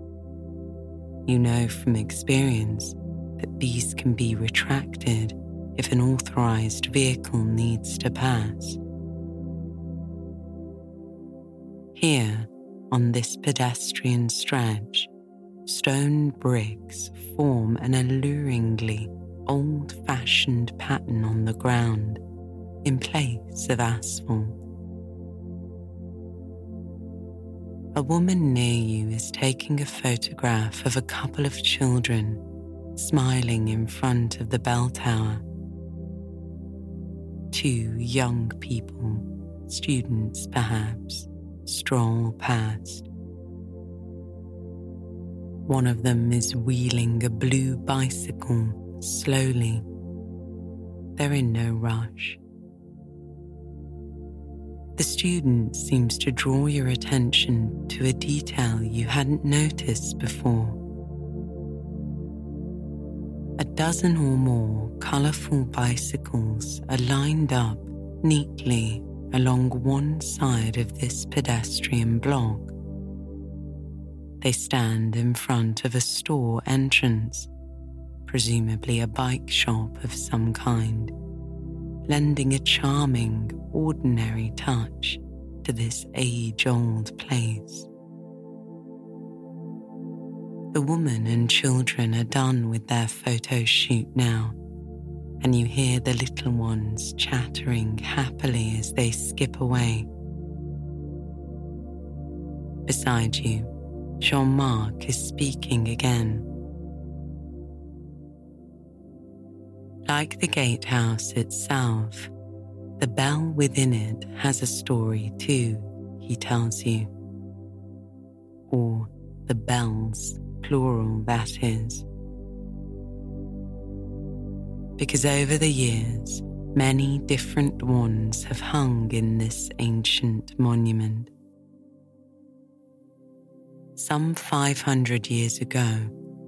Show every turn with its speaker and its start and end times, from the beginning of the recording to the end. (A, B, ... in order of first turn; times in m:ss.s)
0:01.3-0:08.8 A
0:12.0-0:15.1 A
0:15.7-0:22.2 A
0:22.8-0:24.6 A
0:27.9-0:32.4 A
0:33.0-0:35.4 A
0:37.5-0:43.1 A
0:45.7-0:49.8 A
0:51.2-0:52.4 A
0:55.0-1:00.8 A
1:03.6-1:12.7 A
1:14.4-1:17.5 A
1:18.3-1:21.1 A
1:22.1-1:27.9 A
1:30.7-1:34.6 A
1:35.4-1:40.1 A
1:42.9-1:46.5 A
1:50.1-1:52.3 A
1:53.0-1:57.1 A
1:58.7-2:02.0 A
2:05.0-2:11.3 A
2:14.0-2:16.1 A